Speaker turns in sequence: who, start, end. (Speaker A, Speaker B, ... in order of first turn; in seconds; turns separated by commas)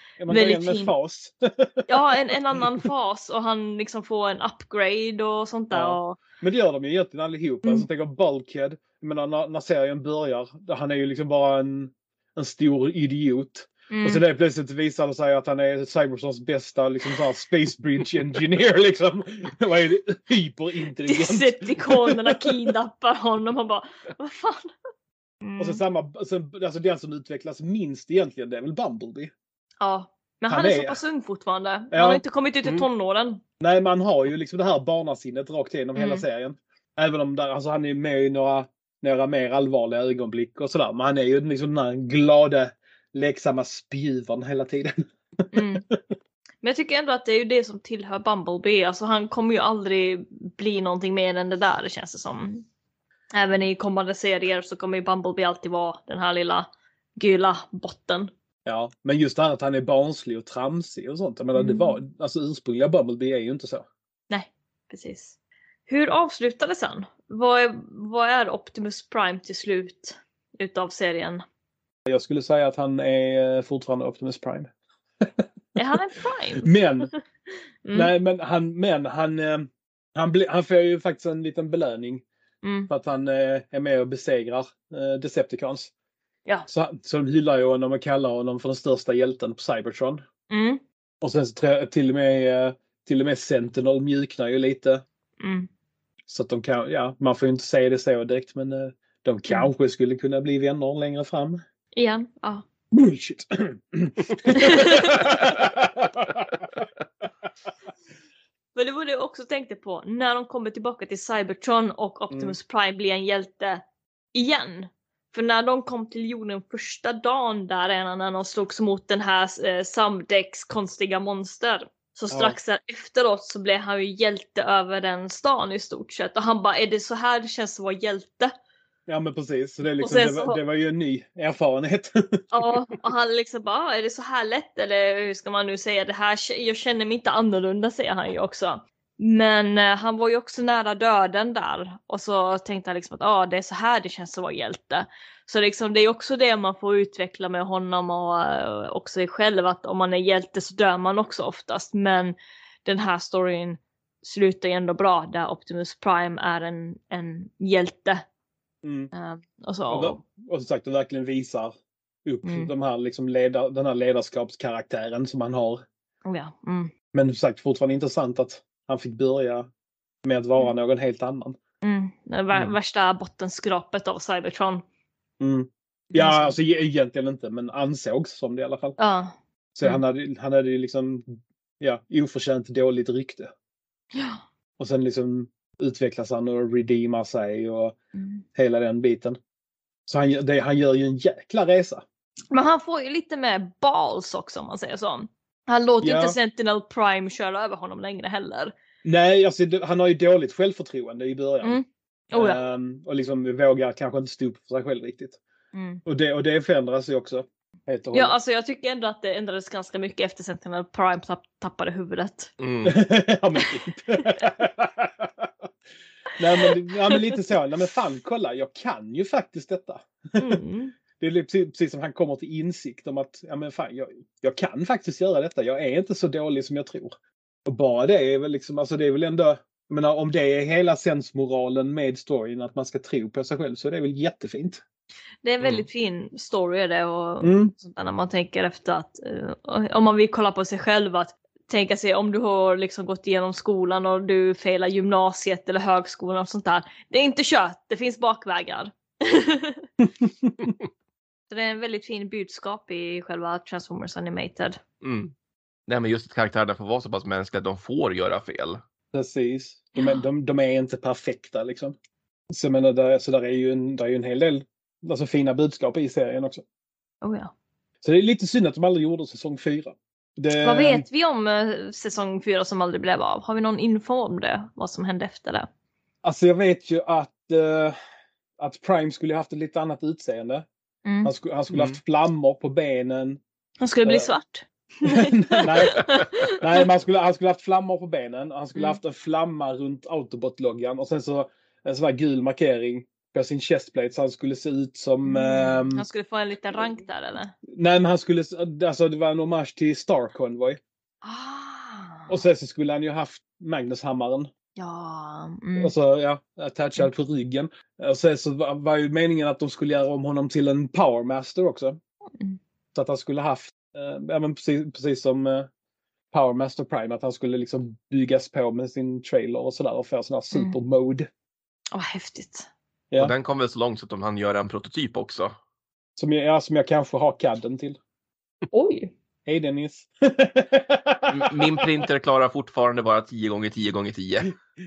Speaker A: 0.2-2.6, Speaker B: 0.3-0.9, Speaker B: 1.9-6.2, Speaker A: 5.7-22.5, Speaker B: 13.9-14.2, Speaker B: 21.1-24.7, Speaker B: 25.4-25.8, Speaker A: 25.6-29.3, Speaker B: 29.8-33.4, Speaker A: 30.5-31.0, Speaker A: 31.9-32.2, Speaker A: 33.6-46.0, Speaker B: 36.0-36.2, Speaker B: 45.5-45.9, Speaker B: 46.6-52.6, Speaker B: 53.3-58.3, Speaker A: 58.7-63.9, Speaker B: 61.6-62.0, Speaker B: 64.3-65.3, Speaker B: 65.9-71.4, Speaker A: 72.1-74.7, Speaker B: 75.8-77.2, Speaker A: 76.6-77.1, Speaker B: 77.8-78.1, Speaker A: 77.9-82.2, Speaker B: 82.6-82.9, Speaker A: 82.9-85.9, Speaker A: 86.7-90.2, Speaker B: 90.5-90.8, Speaker A: 91.2-95.0, Speaker B: 95.4-95.7, Speaker A: 96.3-101.6, Speaker B: 102.0-102.6, Speaker A: 102.9-106.4, Speaker B: 104.5-105.3, Speaker B: 108.8-113.8, Speaker B: 114.3-128.5, Speaker A: 122.3-122.6, Speaker A: 129.1-132.4, Speaker B: 130.0-130.6, Speaker B: 132.5-158.2, Speaker A: 158.8-159.1, Speaker B: 159.1-160.2, Speaker A: 159.9-161.7, Speaker A: 162.2-165.8, Speaker B: 162.4-162.7, Speaker B: 166.2-166.9, Speaker A: 167.1-169.7, Speaker A: 170.2-171.6, Speaker B: 171.8-174.8, Speaker A: 175.4-179.0, Speaker B: 176.1-176.6, Speaker B: 179.0-179.3, Speaker A: 179.8-183.5, Speaker B: 184.1-184.4, Speaker A: 184.8-187.9, Speaker B: 188.2-188.4, Speaker A: 188.6-189.4, Speaker A: 190.1-192.0, Speaker B: 192.5-198.7, Speaker A: 196.0-196.4, Speaker A: 199.0-201.8, Speaker B: 201.6-202.6, Speaker A: 202.3-205.4, Speaker B: 205.7-206.0, Speaker A: 206.1-208.3, Speaker B: 208.1-212.5, Speaker C: 212.6-213.0, Speaker A: 212.8-215.5, Speaker A: 216.4-220.6, Speaker B: 220.4-220.9, Speaker A: 221.2-227.1, Speaker A: 227.7-234.8, Speaker B: 235.4-249.9, Speaker A: 237.4-237.7, Speaker A: 250.0-250.7, Speaker B: 251.5-254.8, Speaker C: 255.0-255.3, Speaker C: 255.9-258.8, Speaker A: 259.1-261.9, Speaker B: 260.0-260.3, Speaker A: 262.5-266.6, Speaker B: 267.2-267.5, Speaker A: 268.0-271.0, Speaker B: 270.6-275.7, Speaker A: 276.2-278.0, Speaker A: 278.6-280.7, Speaker B: 281.1-281.3, Speaker A: 281.2-283.4, Speaker C: 281.7-282.0, Speaker B: 283.8-286.8, Speaker A: 284.0-284.3, Speaker A: 285.1-296.1, Speaker B: 295.2-297.5, Speaker A: 297.7-300.8, Speaker B: 301.2-302.4, Speaker A: 302.3-304.5, Speaker B: 304.8-305.9, Speaker A: 305.8-312.0, Speaker A: 312.9-315.7, Speaker A: 316.3-321.3, Speaker B: 321.9-322.7, Speaker C: 323.2-325.6, Speaker A: 326.2-328.0, Speaker B: 328.7-329.1, Speaker A: 329.5-331.7, Speaker C: 331.3-334.5